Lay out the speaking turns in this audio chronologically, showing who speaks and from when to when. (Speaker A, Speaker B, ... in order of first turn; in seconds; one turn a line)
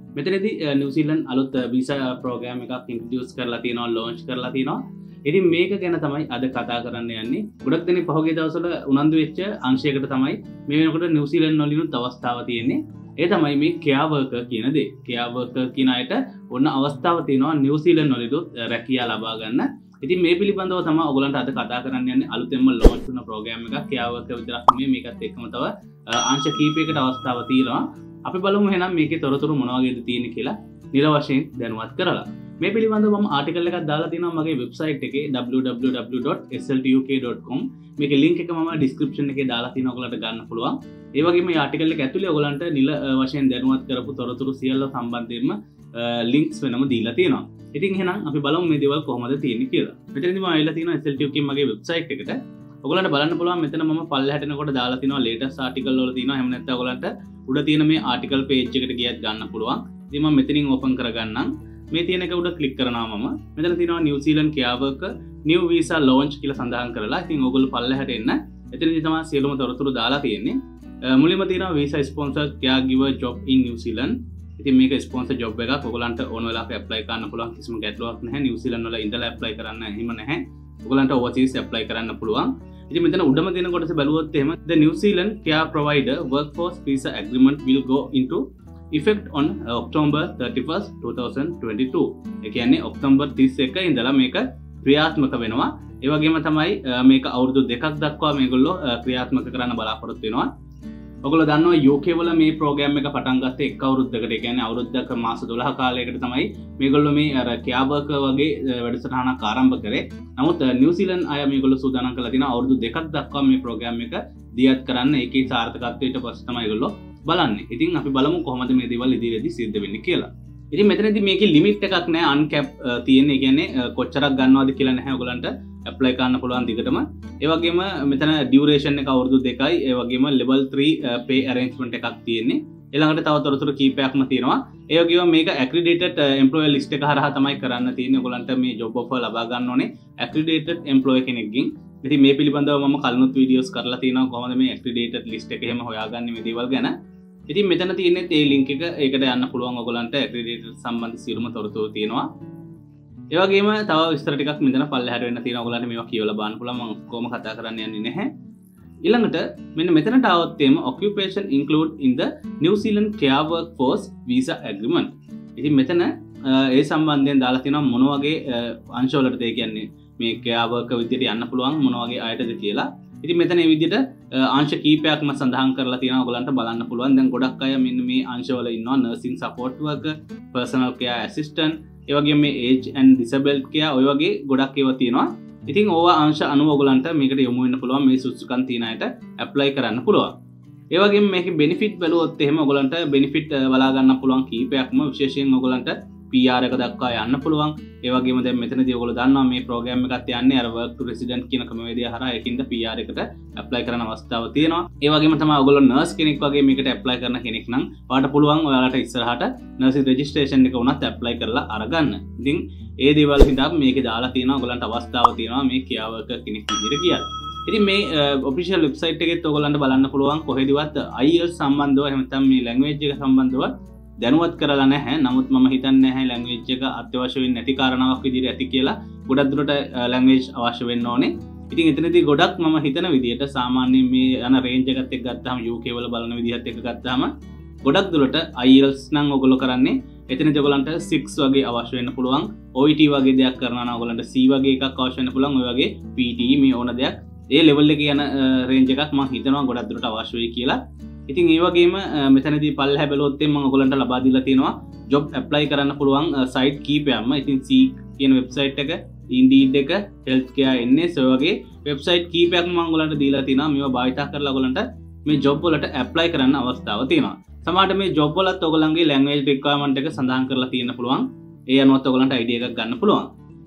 Speaker A: 0.1-100.5
Speaker A: 101.2-146.9
Speaker A: 147.5-152.3
Speaker A: 153.3-158.3
Speaker A: 159.0-190.3
Speaker A: 190.9-237.3
Speaker A: 237.8-273.3